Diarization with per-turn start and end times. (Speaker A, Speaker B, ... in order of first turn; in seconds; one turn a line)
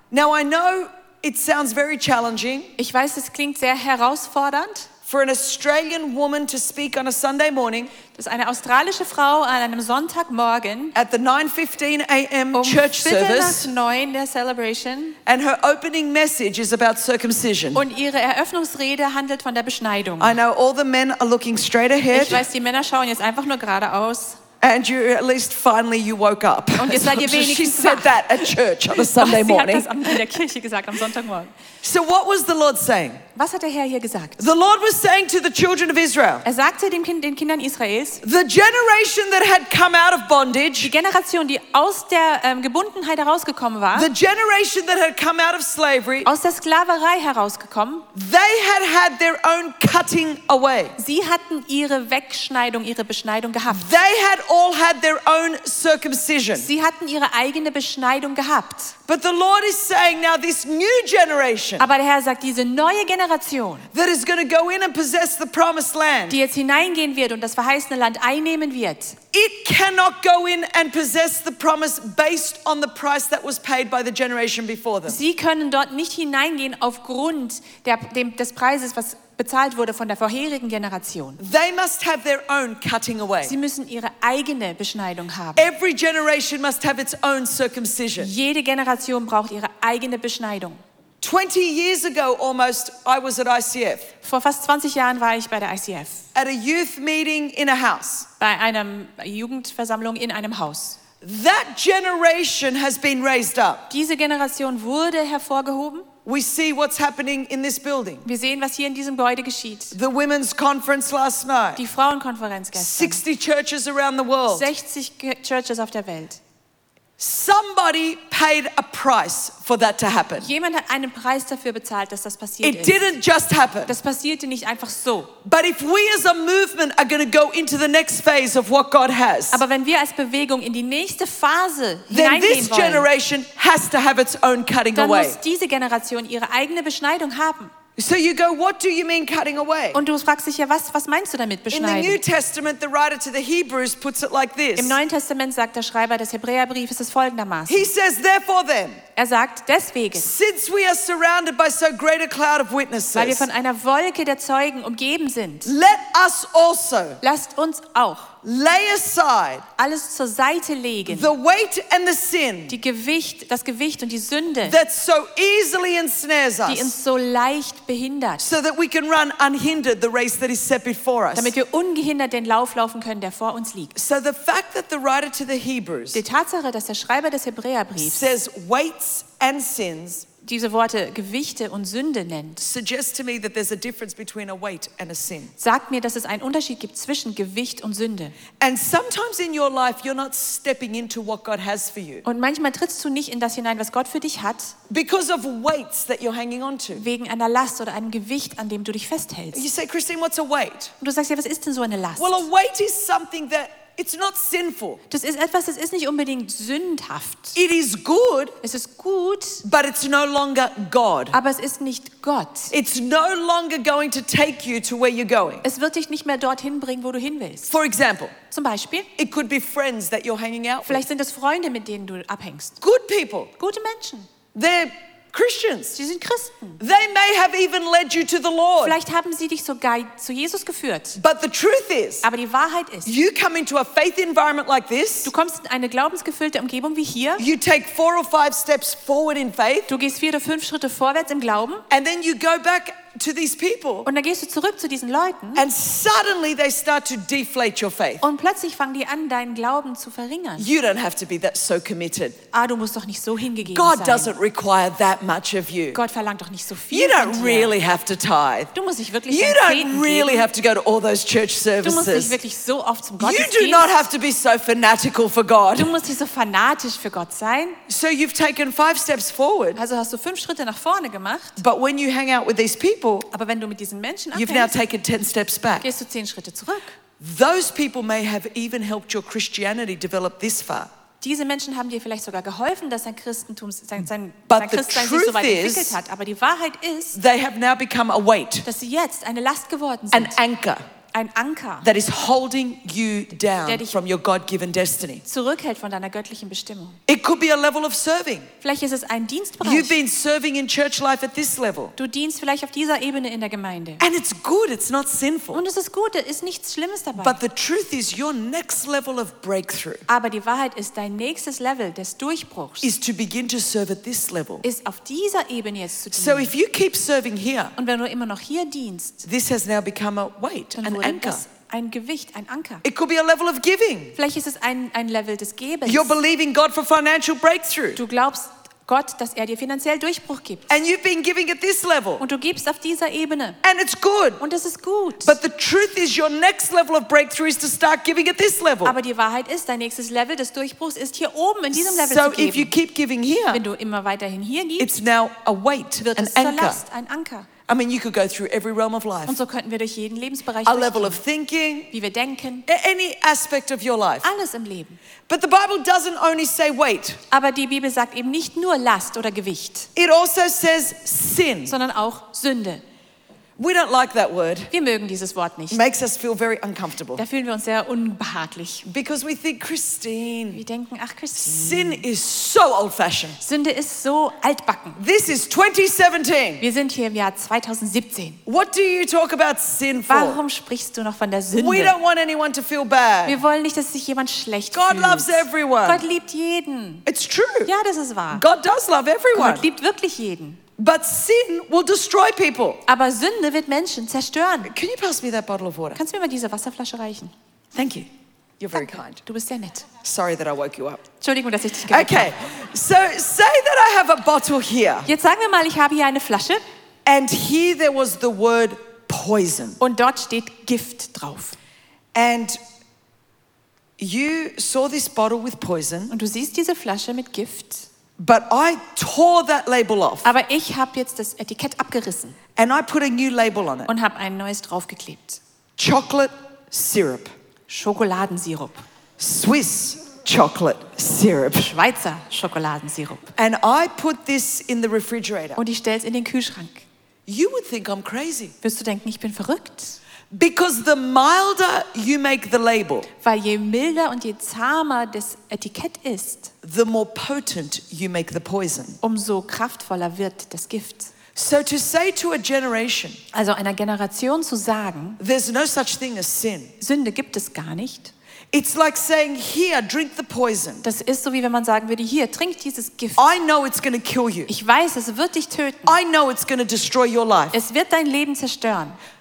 Speaker A: 0.1-2.7
Speaker B: 2.8-4.9
Speaker A: 5.0-7.9
Speaker B: 8.1-10.9
Speaker A: 10.9-13.7
Speaker B: 12.5-15.2
Speaker A: 15.2-17.8
Speaker B: 17.7-20.3
Speaker A: 20.2-22.4
Speaker B: 22.1-24.4
Speaker A: 24.6-30.2
Speaker B: 26.8-31.5
Speaker A: 31.8-33.2
Speaker B: 33.4-34.4
Speaker A: 34.4-36.5
Speaker B: 36.4-38.2
Speaker A: 38.2-40.9
Speaker B: 40.8-44.1
Speaker A: 43.9-46.3
Speaker B: 46.2-48.1
Speaker A: 48.1-51.0
Speaker B: 51.0-53.9
Speaker A: 53.7-56.7
Speaker B: 56.5-58.9
Speaker A: 59.1-61.9
Speaker B: 61.8-63.9
Speaker A: 63.9-66.4
Speaker B: 66.3-69.2
Speaker A: 69.3-75.2
Speaker B: 75.0-81.4
Speaker A: 81.4-83.5
Speaker B: 83.4-85.7
Speaker A: 85.5-88.3
Speaker B: 88.2-90.8
Speaker A: 91.2-94.1
Speaker B: 94.2-96.2
Speaker A: 96.3-98.3
Speaker B: 98.4-101.0
Speaker A: 101.2-103.9
Speaker B: 103.9-106.1
Speaker A: 106.2-108.2
Speaker B: 108.2-110.0
Speaker A: 109.9-111.8
Speaker B: 111.8-113.2
Speaker A: 112.7-114.7
Speaker B: 114.5-116.4
Speaker A: 117.2-120.5
Speaker B: 120.4-123.0
Speaker A: 122.6-123.9
Speaker B: 123.9-125.3
Speaker A: 125.4-129.6
Speaker B: 129.5-133.1
Speaker A: 132.1-135.4
Speaker B: 134.9-137.7
Speaker A: 138.0-140.0
Speaker B: 139.9-142.2
Speaker A: 141.7-145.0
Speaker B: 144.8-147.9
Speaker A: 147.7-149.0
Speaker B: 149.2-150.3
Speaker A: 150.1-153.4
Speaker B: 153.1-155.7
Speaker A: 155.6-157.2
Speaker B: 157.2-158.3
Speaker A: 158.4-159.7
Speaker B: 159.8-161.3
Speaker A: 161.1-162.8
Speaker B: 162.7-164.8
Speaker A: 164.6-166.9
Speaker B: 166.7-168.5
Speaker A: 168.4-171.5
Speaker B: 171.3-173.9
Speaker A: 173.9-176.2
Speaker B: 176.1-178.3
Speaker A: 178.0-180.3
Speaker B: 180.4-182.6
Speaker A: 182.6-185.5
Speaker B: 185.6-188.3
Speaker A: 188.6-192.2
Speaker B: 192.2-194.7
Speaker A: 194.9-197.0
Speaker B: 196.9-199.6
Speaker A: 199.5-200.9
Speaker B: 201.0-202.4
Speaker A: 202.2-205.0
Speaker B: 205.1-207.6
Speaker A: 207.5-208.6
Speaker B: 208.6-209.6
Speaker A: 209.6-211.3
Speaker B: 211.3-212.7
Speaker A: 212.7-215.6
Speaker B: 215.6-217.7
Speaker A: 217.7-218.3
Speaker B: 218.5-219.1
Speaker A: 219.2-221.0
Speaker B: 220.8-222.8
Speaker A: 222.8-223.5
Speaker B: 223.6-224.3
Speaker A: 224.5-225.9
Speaker B: 225.9-226.8
Speaker A: 226.8-229.0
Speaker B: 228.8-231.2
Speaker A: 231.2-232.2
Speaker B: 232.2-233.1
Speaker A: 233.1-235.3
Speaker B: 235.2-237.4
Speaker A: 237.4-239.9
Speaker B: 239.9-241.8
Speaker A: 241.9-244.1
Speaker B: 244.1-245.7
Speaker A: 245.5-248.2
Speaker B: 248.2-250.7
Speaker A: 250.6-252.4
Speaker B: 252.5-254.3
Speaker A: 253.6-256.0
Speaker B: 255.9-257.7
Speaker A: 256.9-258.7
Speaker B: 258.7-260.5
Speaker A: 259.3-262.4
Speaker B: 261.8-263.9
Speaker A: 263.2-265.9
Speaker B: 265.8-267.8
Speaker A: 267.9-269.8
Speaker B: 269.7-271.6
Speaker A: 271.6-273.3
Speaker B: 273.3-274.8
Speaker A: 274.3-275.9
Speaker B: 275.8-276.9
Speaker A: 277.2-280.9
Speaker B: 281.2-287.1
Speaker A: 284.5-285.9
Speaker A: 287.1-288.7
Speaker B: 288.6-290.4
Speaker A: 290.1-290.8
Speaker B: 291.1-291.9
Speaker A: 291.8-295.2
Speaker B: 293.6-293.9
Speaker B: 295.3-297.0
Speaker A: 297.1-298.5
Speaker B: 298.6-299.9
Speaker A: 299.6-301.9
Speaker B: 302.0-304.0
Speaker A: 304.0-305.6
Speaker B: 305.5-307.4
Speaker A: 307.1-310.1
Speaker B: 310.1-312.9
Speaker A: 312.8-314.6
Speaker B: 314.6-316.5
Speaker A: 316.1-317.7
Speaker B: 317.8-319.2
Speaker A: 319.2-321.4
Speaker B: 320.7-322.8
Speaker A: 322.8-324.1
Speaker B: 324.1-326.1
Speaker A: 325.9-328.0
Speaker B: 327.9-330.7
Speaker A: 330.7-332.2
Speaker B: 332.2-333.6
Speaker A: 333.6-334.4
Speaker B: 334.4-335.3
Speaker A: 335.2-338.9
Speaker B: 338.8-342.7
Speaker A: 341.7-343.6
Speaker B: 343.5-345.0
Speaker A: 344.8-346.8
Speaker B: 346.0-347.5
Speaker A: 347.7-349.4
Speaker B: 349.3-351.2
Speaker A: 350.6-351.9
Speaker B: 351.9-352.6
Speaker A: 352.7-354.3
Speaker B: 354.2-355.0
Speaker A: 355.3-357.2
Speaker B: 357.3-359.9
Speaker A: 359.9-361.7
Speaker B: 361.7-362.8
Speaker A: 363.6-364.7
Speaker B: 364.7-365.8
Speaker A: 365.7-367.2
Speaker B: 367.1-368.9
Speaker A: 368.9-370.6
Speaker B: 370.5-372.0
Speaker A: 371.4-373.4
Speaker B: 373.4-375.0
Speaker A: 375.0-376.6
Speaker B: 376.6-378.4
Speaker A: 378.4-380.4
Speaker B: 380.1-381.9
Speaker A: 381.5-383.4
Speaker B: 383.2-387.0
Speaker A: 384.7-386.0
Speaker A: 387.1-387.7
Speaker B: 387.6-388.4
Speaker A: 388.3-389.7
Speaker B: 389.3-390.6
Speaker A: 390.8-392.8
Speaker B: 392.9-394.7
Speaker A: 394.6-396.0
Speaker B: 395.9-397.3
Speaker A: 397.7-398.1
Speaker A: 398.6-399.2
Speaker B: 398.7-399.9
Speaker A: 400.0-401.0
Speaker B: 401.2-402.3
Speaker A: 401.9-405.1
Speaker B: 405.1-406.6
Speaker A: 407.1-409.8
Speaker B: 409.8-411.5
Speaker A: 412.1-412.6
Speaker A: 414.0-416.1
Speaker B: 416.1-417.9
Speaker A: 418.2-420.3
Speaker B: 420.2-422.4
Speaker A: 422.6-423.9
Speaker B: 423.9-425.4
Speaker A: 425.8-427.3
Speaker B: 427.7-428.8
Speaker A: 429.2-431.8
Speaker B: 431.6-433.3
Speaker A: 433.4-435.6
Speaker B: 435.6-436.8
Speaker A: 437.3-438.5
Speaker B: 438.6-440.0
Speaker A: 440.3-443.1
Speaker B: 443.2-446.5
Speaker A: 446.6-449.0
Speaker B: 449.0-451.1
Speaker A: 451.3-453.2
Speaker B: 453.3-455.2
Speaker A: 455.2-456.7
Speaker B: 456.8-458.1
Speaker A: 458.5-460.9
Speaker B: 460.8-463.2
Speaker A: 463.2-464.5
Speaker B: 464.5-465.9
Speaker A: 465.9-467.6
Speaker B: 467.5-469.0